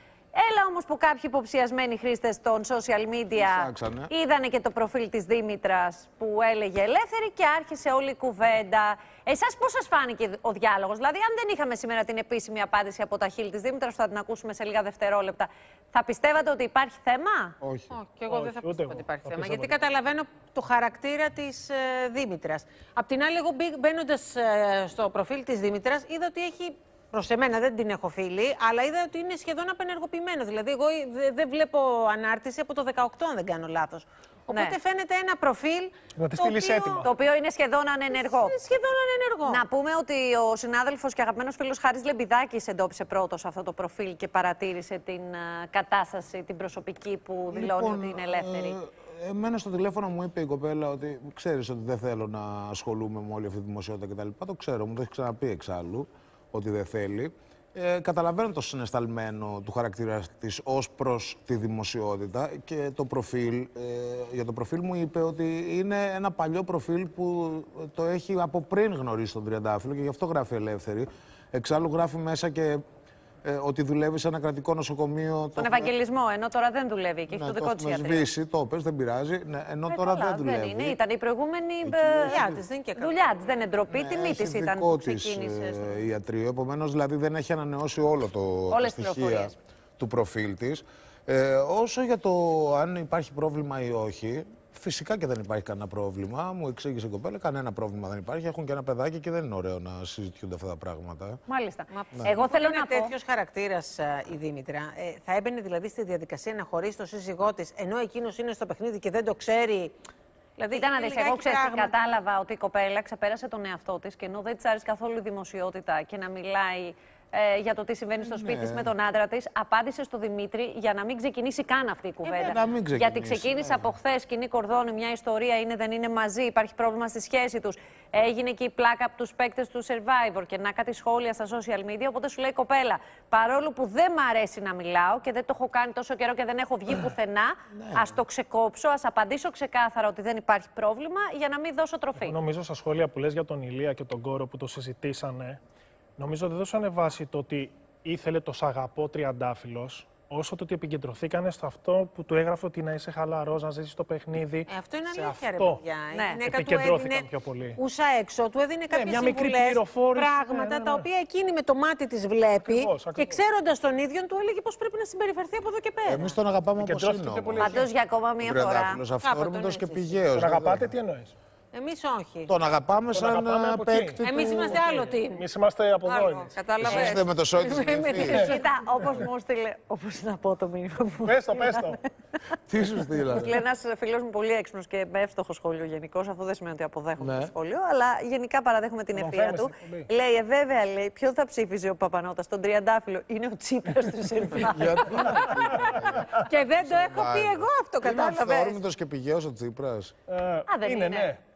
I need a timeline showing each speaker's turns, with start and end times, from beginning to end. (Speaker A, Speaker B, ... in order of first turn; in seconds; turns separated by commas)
Speaker A: 0.3-17.6, Speaker B: 3.4-4.1, Speaker B: 17.6-17.9, Speaker C: 17.9-37.1, Speaker D: 18.3-19.8, Speaker A: 34.5-34.8, Speaker D: 36.1-37.1, Speaker A: 36.6-38.6, Speaker C: 38.1-39.6, Speaker A: 39.5-48.8, Speaker B: 47.5-72.8, Speaker B: 73.4-75.9, Speaker A: 75.6-78.3, Speaker B: 77.3-81.0, Speaker A: 79.9-86.0, Speaker B: 81.8-82.6, Speaker C: 82.3-83.1, Speaker B: 83.9-101.4, Speaker A: 88.7-89.5, Speaker A: 101.5-103.1, Speaker C: 101.9-110.0, Speaker C: 110.6-111.9, Speaker A: 110.7-142.4, Speaker B: 118.2-118.9, Speaker C: 122.2-122.6, Speaker B: 122.4-123.9, Speaker B: 137.7-138.1, Speaker D: 142.2-145.6, Speaker D: 146.2-155.8, Speaker C: 154.7-166.4, Speaker A: 156.1-156.4, Speaker D: 156.4-157.8, Speaker D: 158.9-161.1, Speaker D: 162.6-163.4, Speaker B: 166.1-167.8, Speaker D: 166.8-167.9, Speaker A: 167.6-169.0, Speaker B: 168.4-170.9, Speaker C: 169.2-170.3, Speaker D: 170.3-171.3, Speaker C: 171.7-172.5, Speaker B: 172.5-174.8, Speaker D: 173.1-177.1, Speaker C: 174.2-175.4, Speaker C: 176.0-178.6, Speaker B: 176.8-178.6, Speaker A: 178.2-182.0, Speaker D: 181.2-182.0, Speaker B: 182.7-183.6, Speaker A: 183.2-195.4, Speaker B: 187.2-187.5, Speaker D: 189.1-190.1, Speaker C: 194.2-198.8, Speaker B: 194.5-200.1, Speaker D: 195.8-196.4, Speaker D: 200.3-201.4, Speaker A: 200.7-201.3